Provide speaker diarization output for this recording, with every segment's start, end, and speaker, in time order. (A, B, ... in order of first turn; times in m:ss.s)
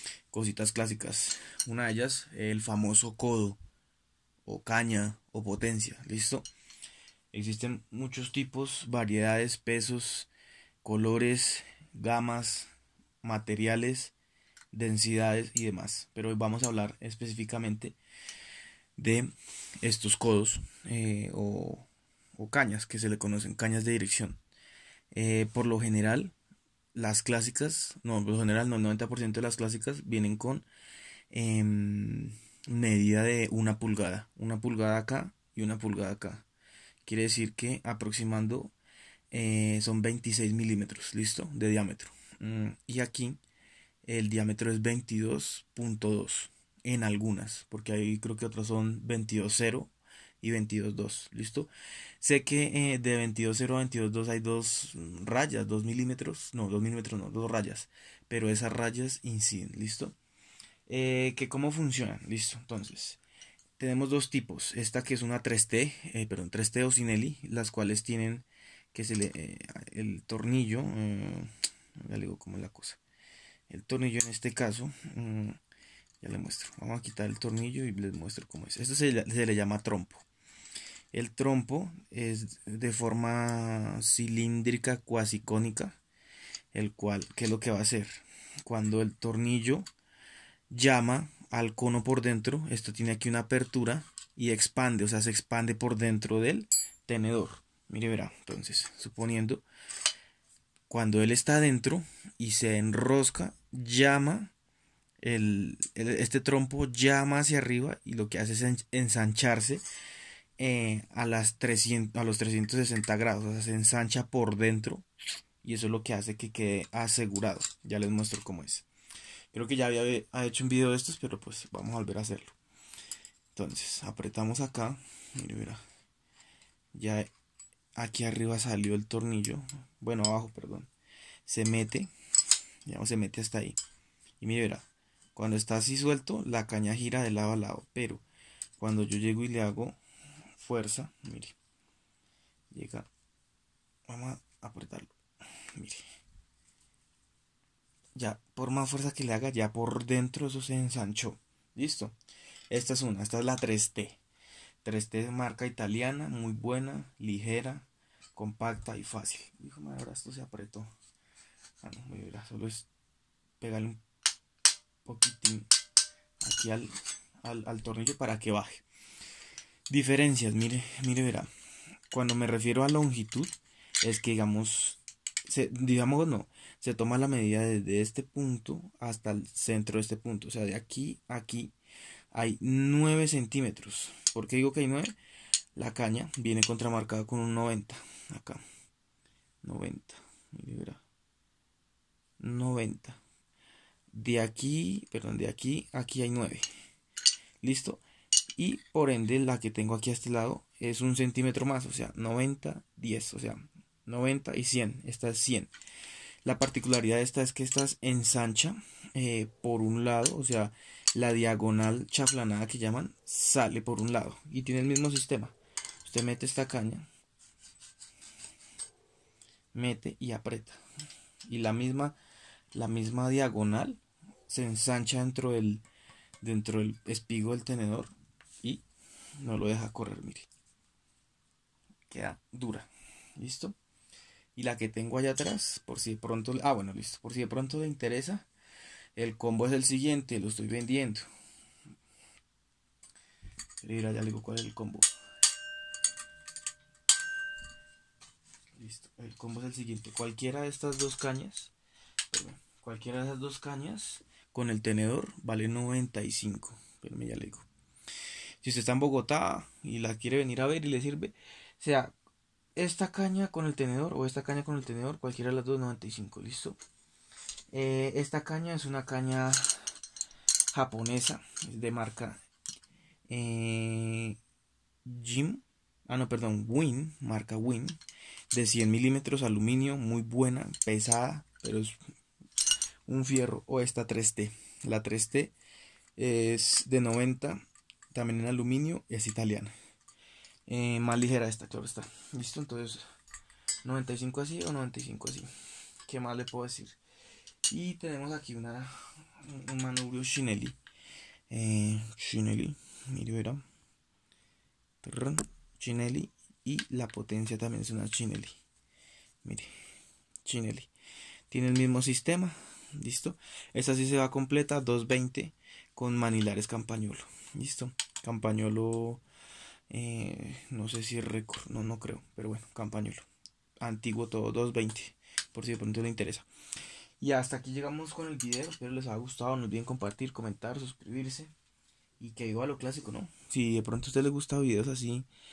0:00.3-0:03.6 A
0:04.4-0:06.5 A
0:07.3-0:10.3 A
0:10.8-0:12.7 A
0:13.2-0:14.1 A
0:14.7-0:18.0 A
0:19.0-0:21.8 A
0:22.4-0:24.4 A
0:25.1-0:26.3 A
0:26.9-0:30.6 A
0:31.3-0:36.4 A
0:37.0-0:38.7 A
0:39.3-0:43.4 A
0:44.0-0:51.7 A
0:52.2-1:00.2 A
1:00.9-1:03.2 A
1:03.8-1:13.0 A
1:13.7-1:15.6 A
1:16.2-1:20.2 A
1:21.1-1:26.0 A
1:26.7-1:29.9 A
1:30.7-1:39.6 A
1:40.9-1:44.5 A
1:45.2-1:49.8 A
1:50.6-1:55.0 A
1:55.6-1:58.8 A
1:59.5-2:02.6 A
2:03.5-2:05.8 A
2:06.9-2:07.3 A
2:08.0-2:10.9 A
2:11.4-2:12.1 A
2:12.8-2:13.8 A
2:14.4-2:18.2 A
2:18.8-2:20.0 A
2:20.6-2:21.6 A
2:22.7-2:23.1 A
2:24.1-2:25.1 A
2:25.8-2:26.0 A
2:28.1-2:32.1 A
2:32.7-2:34.2 A
2:34.8-2:40.9 A
2:41.8-2:42.9 A
2:43.6-2:44.0 A
2:45.0-2:45.7 A
2:46.4-2:48.8 A
2:49.9-2:51.5 A
2:52.1-3:01.7 A
3:02.3-3:05.1 A
3:05.7-3:08.6 A
3:09.6-3:11.0 A
3:12.4-3:13.2 A
3:14.1-3:16.6 A
3:17.6-3:18.0 A
3:18.5-3:25.7 A
3:26.4-3:37.1 A
3:39.7-3:40.8 A
3:41.5-3:42.2 A
3:42.7-3:45.8 A
3:46.4-3:48.8 A
3:49.4-3:50.5 A
3:52.1-3:53.8 A
3:54.6-3:58.5 A
3:59.2-4:01.2 A
4:03.8-4:05.1 A
4:08.8-4:11.7 A
4:12.3-4:17.7 A
4:18.6-4:22.1 A
4:22.8-4:26.8 A
4:27.7-4:29.9 A
4:30.7-4:32.4 A
4:33.3-4:34.4 A
4:35.0-4:38.0 A
4:38.5-4:41.9 A
4:43.1-4:45.5 A
4:46.2-4:49.7 A
4:50.7-4:53.0 A
4:53.8-4:55.5 A
4:56.0-4:57.0 A
4:57.7-5:00.8 A
5:01.5-5:03.6 A
5:05.0-5:08.6 A
5:09.4-5:09.7 A
5:10.4-5:10.9 A
5:11.5-5:19.2 A
5:19.9-5:23.2 A
5:23.8-5:26.5 A
5:27.2-5:31.5 A
5:32.2-5:35.3 A